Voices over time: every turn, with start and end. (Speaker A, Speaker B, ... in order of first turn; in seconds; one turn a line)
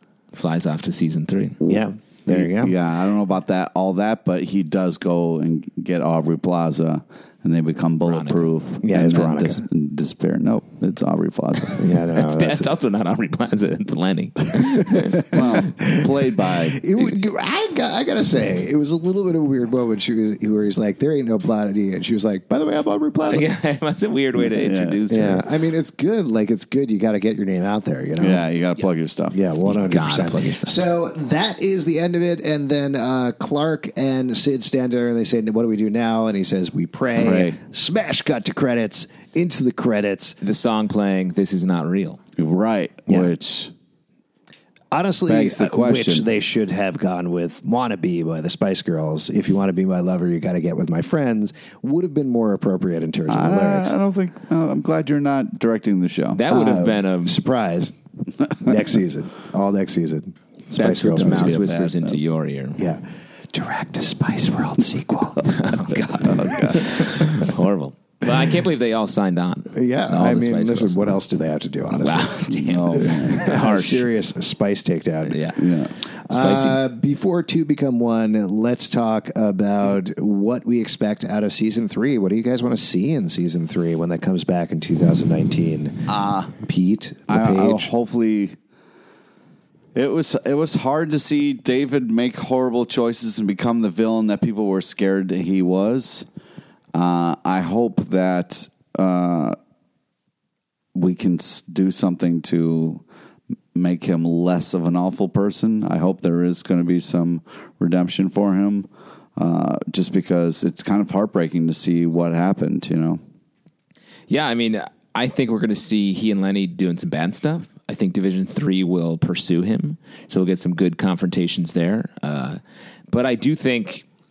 Speaker A: 0.3-1.6
Speaker B: 1.6-11.8
Speaker C: 1.6-2.7
Speaker A: 8.0-8.5
Speaker C: 8.8-9.6
Speaker C: 11.8-12.7
Speaker A: 12.1-15.4
Speaker C: 14.6-23.4
Speaker B: 15.2-17.1
Speaker A: 23.3-25.4
Speaker B: 24.4-25.0
Speaker C: 25.1-28.5
Speaker B: 28.2-29.4
Speaker C: 29.3-40.4
Speaker A: 29.6-30.8
Speaker B: 37.1-37.5
Speaker A: 40.4-42.2
Speaker B: 42.4-43.7
Speaker C: 43.1-43.3
Speaker C: 44.9-53.9
Speaker B: 45.3-46.2
Speaker B: 53.3-56.4
Speaker A: 56.3-57.4
Speaker C: 56.5-57.9
Speaker C: 58.6-61.7
Speaker A: 60.7-62.8
Speaker B: 61.2-62.2
Speaker C: 62.8-65.6
Speaker A: 65.5-71.1
Speaker B: 65.9-67.1
Speaker C: 69.7-72.4
Speaker A: 71.9-74.0
Speaker B: 72.5-73.5
Speaker C: 72.9-75.5
Speaker A: 75.2-75.6
Speaker B: 75.6-75.9
Speaker C: 76.2-87.9
Speaker A: 76.3-76.8
Speaker B: 86.1-86.5
Speaker B: 87.3-88.5
Speaker B: 89.9-96.2
Speaker B: 96.9-99.6
Speaker B: 100.9-103.0
Speaker B: 103.7-113.2
Speaker A: 114.3-122.6
Speaker A: 123.1-124.0